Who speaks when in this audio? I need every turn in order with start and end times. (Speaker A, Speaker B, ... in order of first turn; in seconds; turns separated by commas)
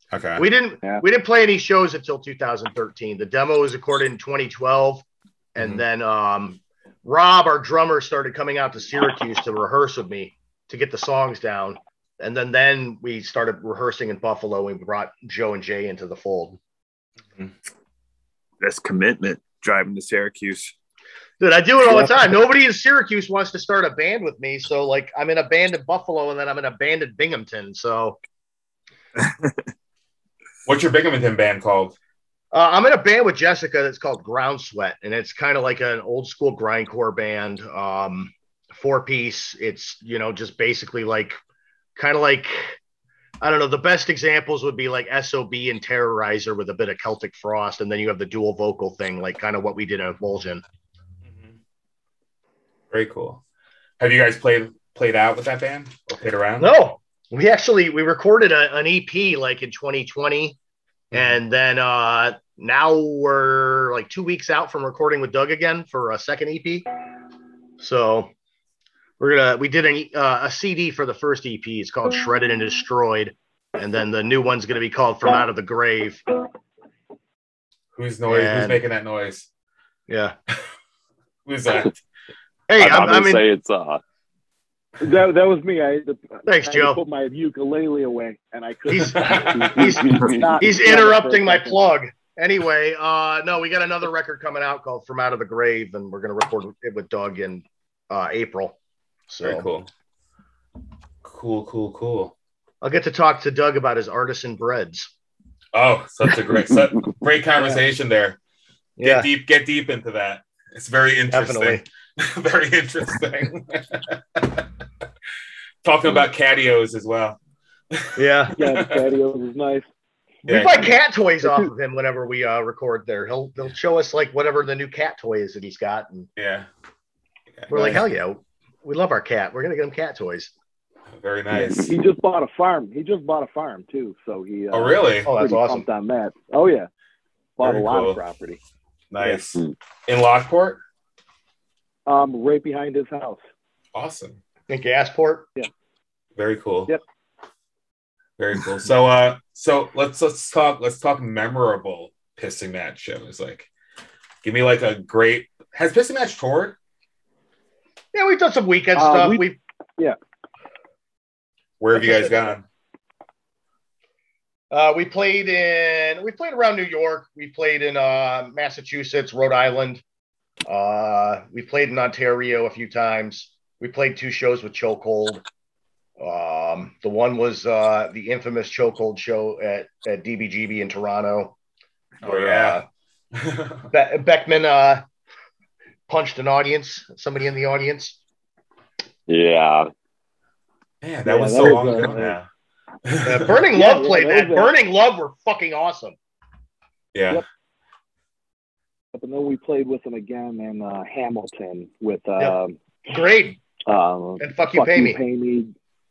Speaker A: 0.1-0.5, Speaker B: 0.4-16.6, Speaker C: 18.6-20.7, Speaker B: 21.4-28.2, Speaker C: 29.2-29.6, Speaker A: 30.7-32.0, Speaker B: 32.5-41.4, Speaker B: 42.0-42.8, Speaker B: 43.4-50.6, Speaker A: 51.2-51.6, Speaker A: 52.9-53.4, Speaker A: 54.0-56.7, Speaker B: 56.6-60.6, Speaker A: 61.1-61.4, Speaker B: 61.1-66.9, Speaker B: 67.8-68.3, Speaker B: 69.2-76.2, Speaker A: 78.0-79.5, Speaker B: 78.3-78.8, Speaker B: 80.1-80.3, Speaker A: 81.5-82.0, Speaker B: 82.7-83.4, Speaker D: 82.8-84.0, Speaker E: 85.0-91.8, Speaker B: 86.5-87.0, Speaker B: 88.9-98.8, Speaker D: 89.7-90.5, Speaker B: 99.3-99.7, Speaker A: 99.4-99.9, Speaker A: 101.2-102.3, Speaker B: 102.8-105.1, Speaker A: 105.7-108.4, Speaker B: 109.0-109.3, Speaker A: 109.0-114.7, Speaker B: 111.3-111.8, Speaker A: 115.8-117.4, Speaker A: 117.9-119.0, Speaker B: 118.2-118.5, Speaker E: 118.6-119.9, Speaker A: 120.5-121.0, Speaker B: 120.5-126.3, Speaker E: 121.4-121.7, Speaker A: 126.4-126.7, Speaker A: 127.6-128.0, Speaker B: 127.7-130.5, Speaker E: 127.7-128.0, Speaker A: 131.1-131.9, Speaker D: 131.6-131.9, Speaker E: 131.9-136.9, Speaker A: 134.7-135.3, Speaker B: 135.2-135.9, Speaker E: 137.6-138.6, Speaker A: 137.6-138.2, Speaker A: 139.1-140.8, Speaker E: 142.1-143.4, Speaker A: 143.9-144.4, Speaker B: 144.7-145.5, Speaker A: 146.4-146.9, Speaker A: 148.4-153.7, Speaker A: 154.4-156.8, Speaker B: 158.1-159.6, Speaker E: 158.9-159.4, Speaker A: 161.8-162.6, Speaker B: 161.9-162.6, Speaker B: 164.7-170.0, Speaker B: 170.7-175.4, Speaker B: 176.2-181.6, Speaker A: 182.2-182.8, Speaker B: 182.2-182.8, Speaker A: 183.3-183.9, Speaker B: 183.9-185.0, Speaker B: 186.1-188.2, Speaker D: 189.3-189.9, Speaker A: 191.0-192.5, Speaker E: 191.2-192.4, Speaker A: 193.1-193.6, Speaker B: 193.2-196.2, Speaker E: 193.7-194.7, Speaker A: 197.1-197.4, Speaker E: 199.1-202.8, Speaker B: 202.4-203.6, Speaker E: 203.9-205.7, Speaker B: 204.4-205.2